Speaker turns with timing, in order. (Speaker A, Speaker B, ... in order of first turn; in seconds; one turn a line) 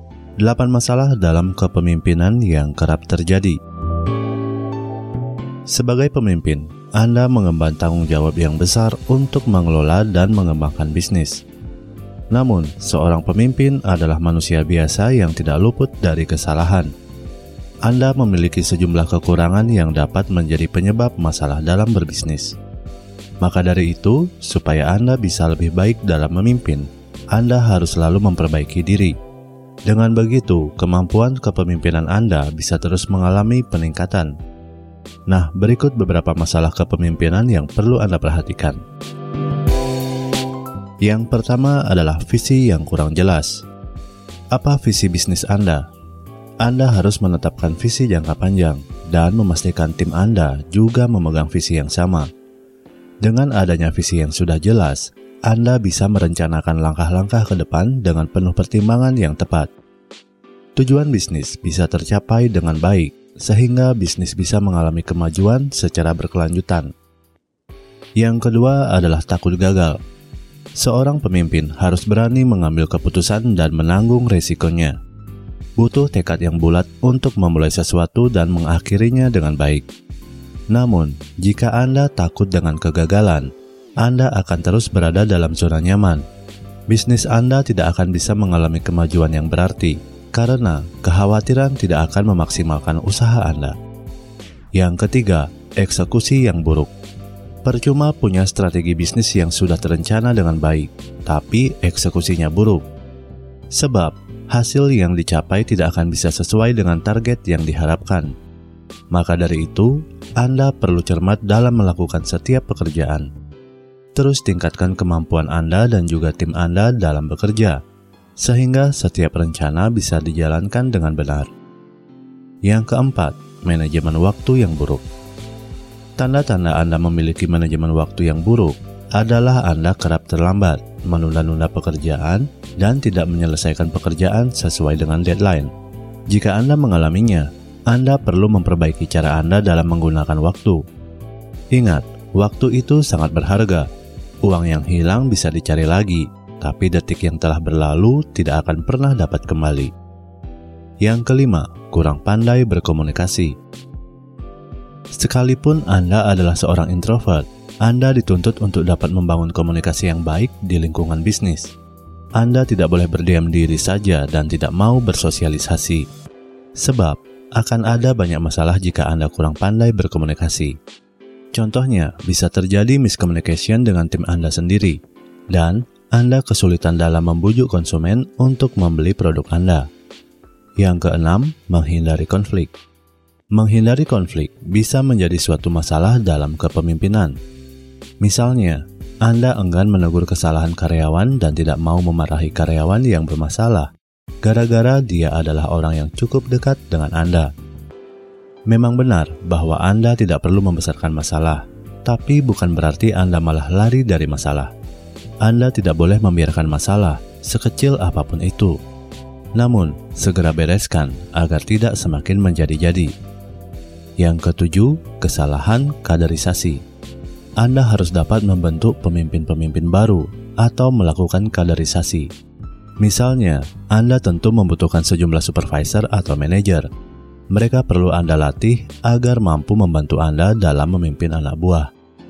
Speaker A: 0.4-3.6
Speaker A: 5.7-11.4
Speaker A: 12.3-16.9
Speaker A: 17.9-22.6
Speaker A: 23.4-29.2
Speaker A: 29.9-34.3
Speaker A: 35.3-38.8
Speaker A: 41.0-43.6
Speaker A: 44.5-45.9
Speaker A: 46.6-52.3
Speaker A: 53.2-59.7
Speaker A: 60.8-66.9
Speaker A: 68.2-70.0
Speaker A: 70.8-75.0
Speaker A: 75.8-79.8
Speaker A: 80.7-86.2
Speaker A: 86.9-93.8
Speaker A: 94.8-96.9
Speaker A: 97.6-102.8
Speaker A: 103.7-108.3
Speaker A: 109.1-113.3
Speaker A: 114.2-117.8
Speaker A: 118.4-121.5
Speaker A: 122.7-125.0
Speaker A: 126.2-135.7
Speaker A: 136.3-140.8
Speaker A: 141.7-143.9
Speaker A: 144.4-149.9
Speaker A: 151.0-153.6
Speaker A: 155.1-161.7
Speaker A: 162.4-166.1
Speaker A: 166.8-170.8
Speaker A: 171.5-175.0
Speaker A: 175.5-179.9
Speaker A: 180.8-182.7
Speaker A: 183.6-187.4
Speaker A: 188.2-193.9
Speaker A: 194.4-197.5
Speaker A: 198.7-204.7
Speaker A: 205.4-208.8
Speaker A: 209.6-213.1
Speaker A: 214.2-216.8
Speaker A: 217.6-222.3
Speaker A: 223.0-226.9
Speaker A: 227.5-231.9